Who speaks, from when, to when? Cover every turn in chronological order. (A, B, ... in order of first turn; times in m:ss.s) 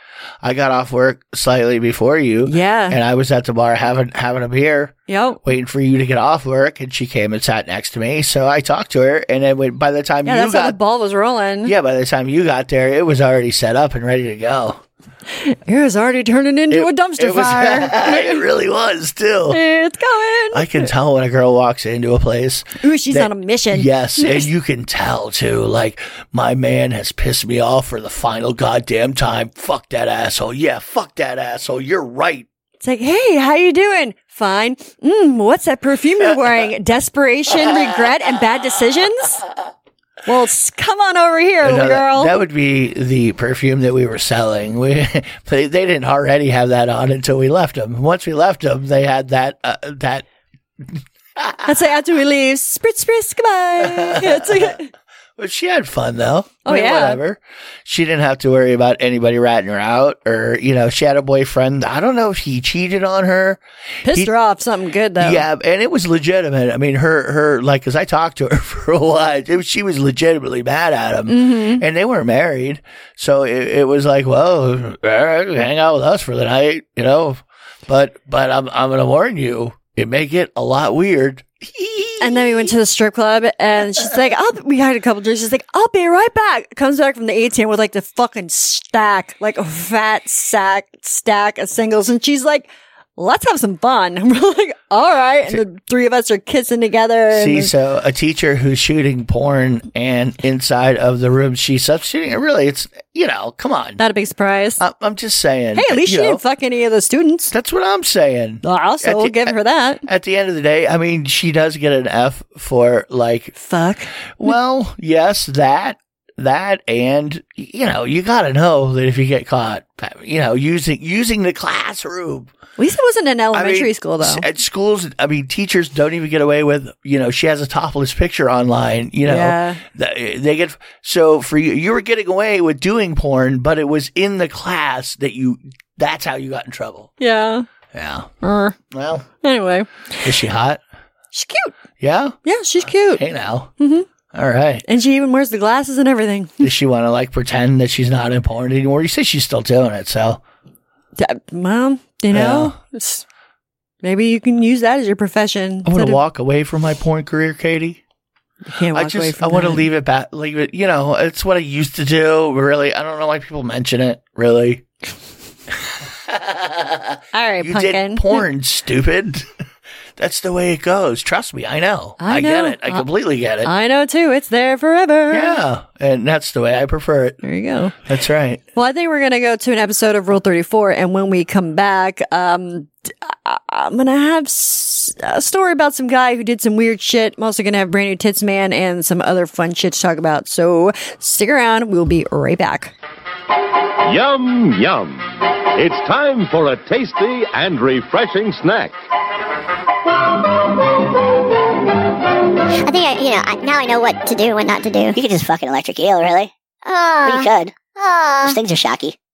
0:00.4-0:10.8 A
0:02.5-0:03.0 B
0:05.1-0:05.4 B
0:10.2-0:11.7 B
0:11.6-0:14.8 A
0:15.4-0:18.4 B
0:16.7-0:19.6 A
0:19.5-0:20.9 B
0:20.5-0:32.5 A
0:22.8-0:24.5 B
0:32.8-0:39.4 B
0:40.3-0:42.4 B
0:41.6-0:50.3 A
0:50.8-0:51.7 A
0:51.6-0:54.9 B
0:53.8-0:54.8 A
0:55.4-1:04.3 A
0:56.6-0:57.2 B
1:04.0-1:05.4 B
1:05.2-1:22.7 A
1:11.3-1:11.8 B
1:22.2-1:37.7 B
1:37.3-1:44.0 A
1:44.0-1:44.8 B
1:44.8-1:46.4 A
1:45.8-1:47.5 B
1:47.5-1:49.6 A
1:48.6-1:50.0 B
1:50.1-1:53.5 A
1:53.6-1:54.1 B
1:54.4-2:02.5 A
2:02.8-2:04.5 B
2:03.5-2:17.1 A
2:09.2-2:09.8 B
2:17.2-2:17.7 B
2:17.9-2:18.3 A
2:18.4-2:18.8 B
2:18.9-2:19.2 A
2:19.4-2:20.3 B
2:20.2-2:20.8 A
2:21.3-2:21.8 B
2:22.0-2:22.4 A
2:22.4-2:23.2 B
2:23.1-2:23.7 A
2:23.8-2:24.1 B
2:24.3-2:24.8 A
2:24.9-2:26.7 B
2:26.6-2:30.4 A
2:31.2-2:33.2 B
2:32.3-2:32.8 A
2:34.0-2:36.2 B
2:35.8-2:38.0 A
2:38.7-2:39.9 B
2:38.9-2:44.8 A
2:46.3-2:49.5 A
2:47.3-2:48.4 B
2:50.2-2:53.7 A
2:52.2-2:53.1 B
2:53.6-2:55.6 B
2:55.3-2:57.4 A
2:57.4-2:58.0 B
2:58.0-2:58.6 A
2:58.8-3:12.9 B
3:14.1-3:19.0 C
3:22.8-3:25.2 D
3:25.1-3:26.5 E
3:26.8-3:28.6 D
3:27.3-3:27.8 E
3:28.5-3:29.2 E